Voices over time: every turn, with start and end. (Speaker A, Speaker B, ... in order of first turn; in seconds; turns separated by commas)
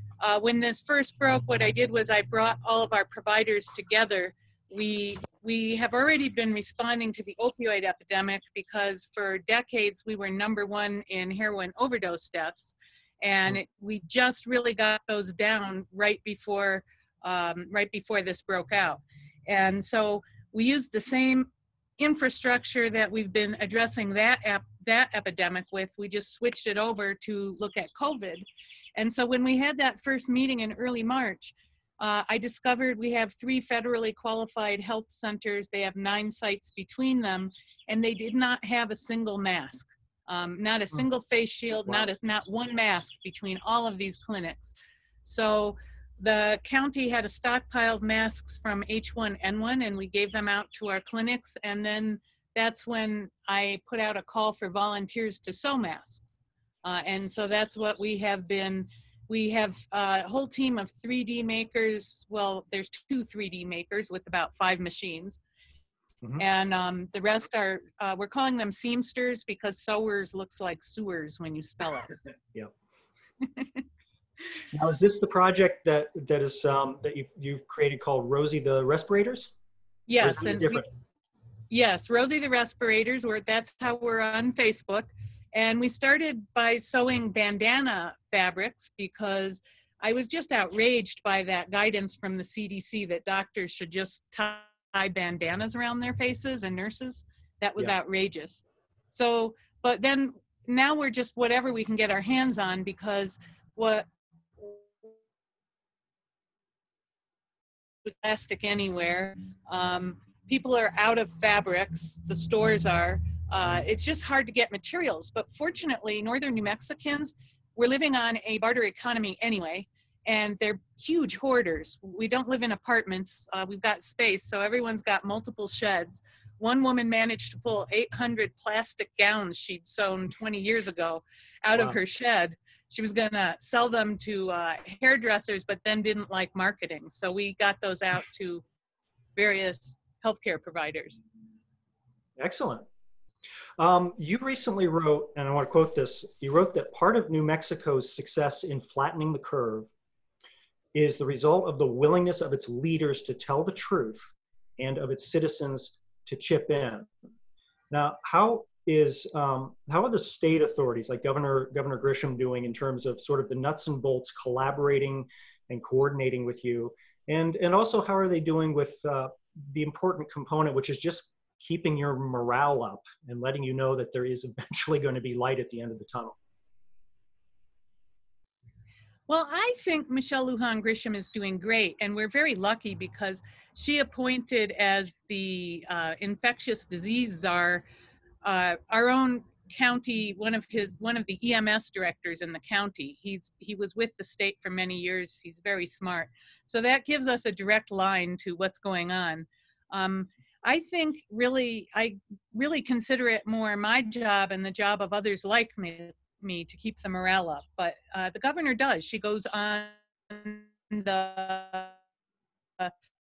Speaker A: 0.2-65.4, Speaker A: 66.4-72.1, Speaker A: 73.4-73.8, Speaker B: 74.7-79.5, Speaker A: 80.1-80.9, Speaker B: 80.2-80.9, Speaker A: 81.7-104.1, Speaker A: 108.0-138.6, Speaker B: 131.7-132.0, Speaker A: 139.4-141.2, Speaker B: 142.4-142.8, Speaker B: 143.8-149.9, Speaker B: 150.9-157.1, Speaker B: 157.9-176.4, Speaker A: 179.3-187.8, Speaker A: 188.4-212.0